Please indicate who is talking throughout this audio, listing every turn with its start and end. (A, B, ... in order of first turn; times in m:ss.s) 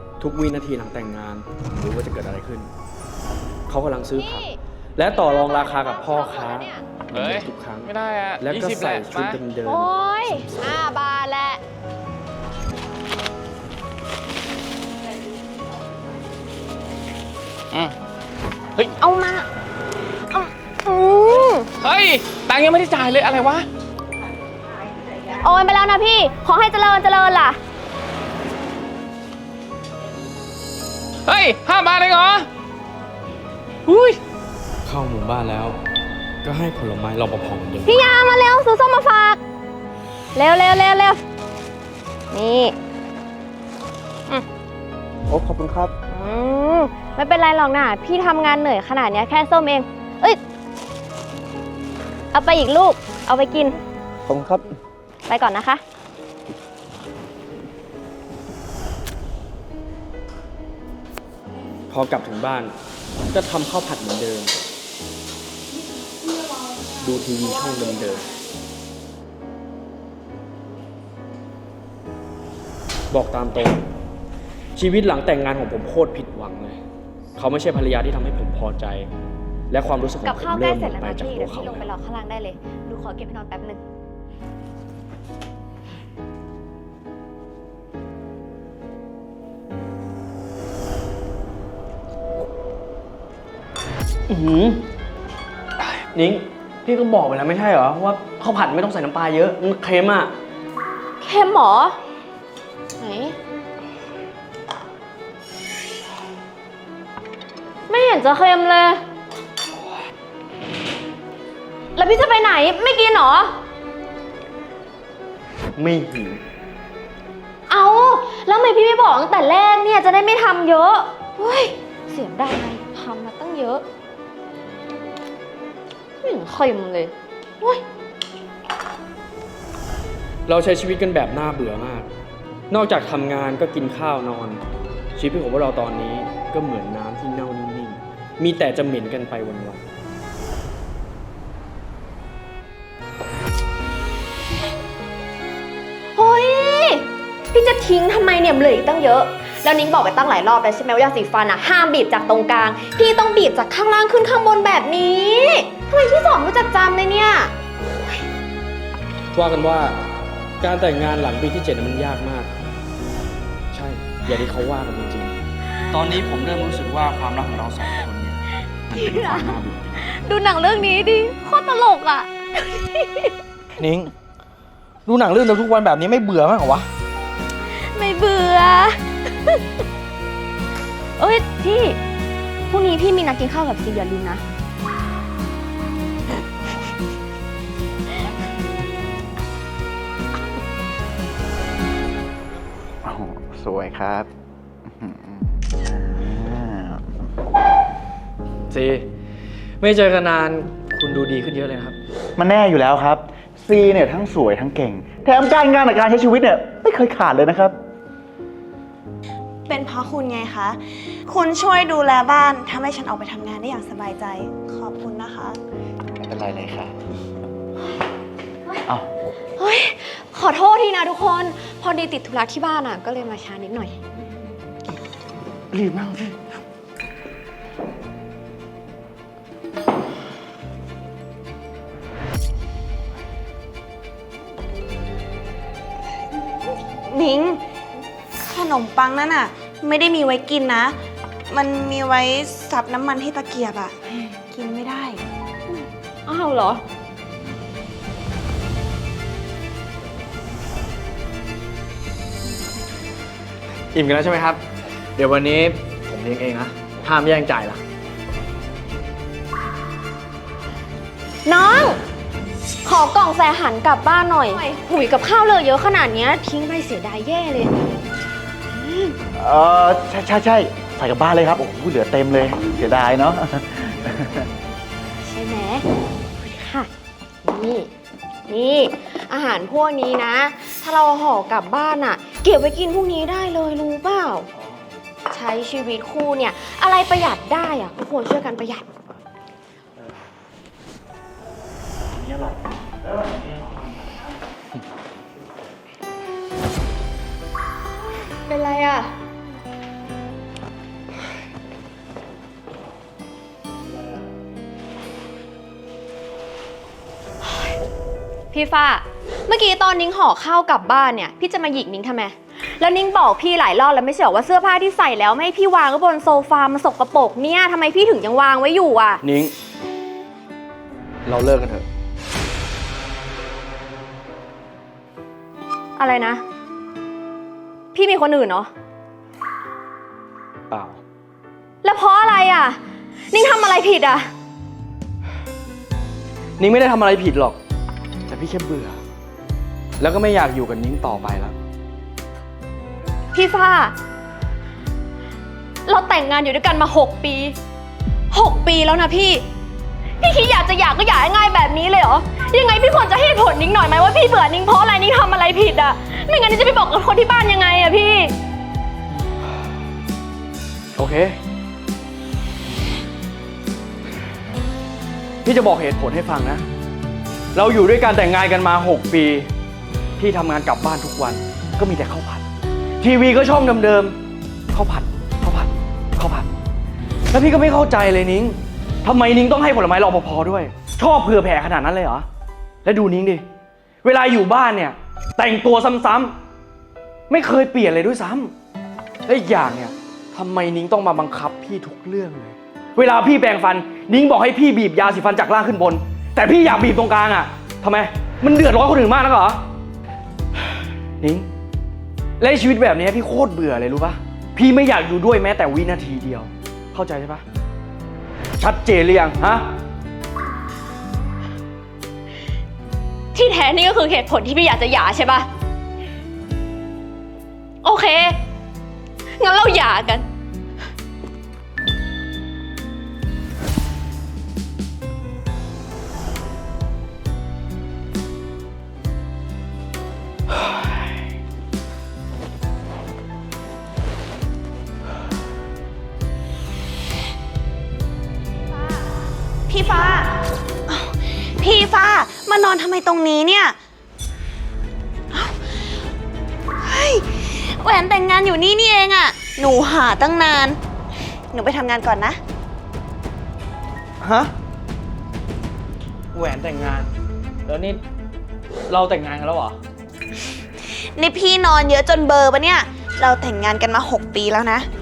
0:00.2-0:02.7 A
0:03.7-0:04.4 A
0:04.2-0:04.6 B
0:05.0-0:09.9 A
0:05.1-0:06.9 B
0:07.1-0:09.4 C
0:09.6-0:11.6 B
0:18.9-0:19.5 B
0:20.3-0:21.7 B
0:21.8-0:23.7 C
0:25.3-0:27.6 B
0:31.2-0:32.5 C
0:33.9-0:34.2 C
0:34.8-0:35.8 A
0:36.4-0:38.0 A
0:37.9-0:39.4 B
0:40.4-0:41.2 B
0:42.3-0:42.8 B
0:45.3-0:45.9 A
0:46.1-0:50.4 B
0:52.3-0:53.8 B
0:54.3-0:54.6 A
0:55.3-0:55.8 B
1:01.9-1:02.7 A
1:03.3-1:04.6 A
1:07.0-1:08.3 A
1:13.1-1:13.8 A
1:14.8-1:16.8 A
1:17.4-1:19.1 A
1:19.7-1:21.9 A
1:20.2-1:23.8 B
1:34.3-1:34.8 A
1:35.8-1:40.3 A
1:41.2-1:42.0 B
1:43.0-1:43.4 B
1:47.9-1:49.0 B
1:52.0-1:53.6 B
1:55.8-1:56.4 A
1:57.7-2:03.8 B
2:06.2-2:07.8 B
2:10.5-2:12.1 A
2:12.7-2:14.6 A
2:15.2-2:19.9 A
2:26.2-2:37.5 B
2:39.3-2:40.0 A
2:40.6-2:42.5 A
2:43.7-2:45.4 A
2:45.9-2:50.1 A
2:49.0-2:53.4 B
2:53.8-2:54.1 A
2:55.1-2:56.9 A
2:57.7-2:59.6 B
3:01.2-3:02.0 B
3:02.7-3:04.4 B
3:13.0-3:14.3 D
3:15.0-3:17.1 D
3:18.7-3:19.0 A
3:19.8-3:22.0 A
3:22.4-3:27.8 D
3:29.7-3:35.6 E
3:36.2-3:37.0 D
3:39.6-3:44.0 B
3:45.7-3:46.4 D
3:57.1-3:57.6 E
3:58.4-4:01.0 E
4:01.5-4:05.2 E
4:05.7-4:06.8 B
4:13.9-4:14.6 A
4:15.2-4:17.8 A
4:21.5-4:22.0 B
4:22.8-4:27.7 B
4:28.8-4:29.2 B
4:29.3-4:34.5 D
4:35.2-4:35.9 B
4:36.4-4:36.9 B
4:37.4-4:37.9 B
4:38.5-4:44.5 B
4:45.3-4:48.9 B
4:52.1-4:53.9 D
4:58.4-4:59.1 B
5:08.5-5:19.2 B
5:19.2-5:19.5 A
5:21.3-5:21.8 A
5:26.0-5:26.4 B
5:27.9-5:28.7 B
5:30.7-5:31.0 A
5:31.8-5:32.8 B
5:33.3-5:34.3 B
5:36.6-5:37.6 A
5:38.3-5:39.0 A
5:40.0-5:41.6 A
5:43.3-5:44.0 B
5:45.9-5:47.6 B
5:48.3-5:49.4 B
5:50.2-5:58.3 B
6:01.0-6:01.4 A
6:05.4-6:06.6 A
6:07.6-6:09.5 A
6:10.2-6:12.4 A
6:13.0-6:14.2 A
6:14.7-6:16.5 A
6:17.3-6:22.2 A
6:22.8-6:23.4 A
6:24.0-6:26.4 A
6:27.3-6:28.5 A
6:29.3-6:39.6 A
6:41.2-6:41.5 A
6:42.4-6:47.4 A
6:48.6-6:49.7 A
6:53.3-6:55.5 B
6:57.8-6:58.4 B
6:59.4-7:00.3 B
7:19.7-7:23.8 E
7:25.3-7:25.8 E
7:26.8-7:30.8 E
7:31.5-7:32.4 E
7:34.2-7:34.5 A
7:36.4-7:37.1 A
7:37.7-7:38.0 A
7:38.9-7:39.8 A
7:40.9-7:44.9 E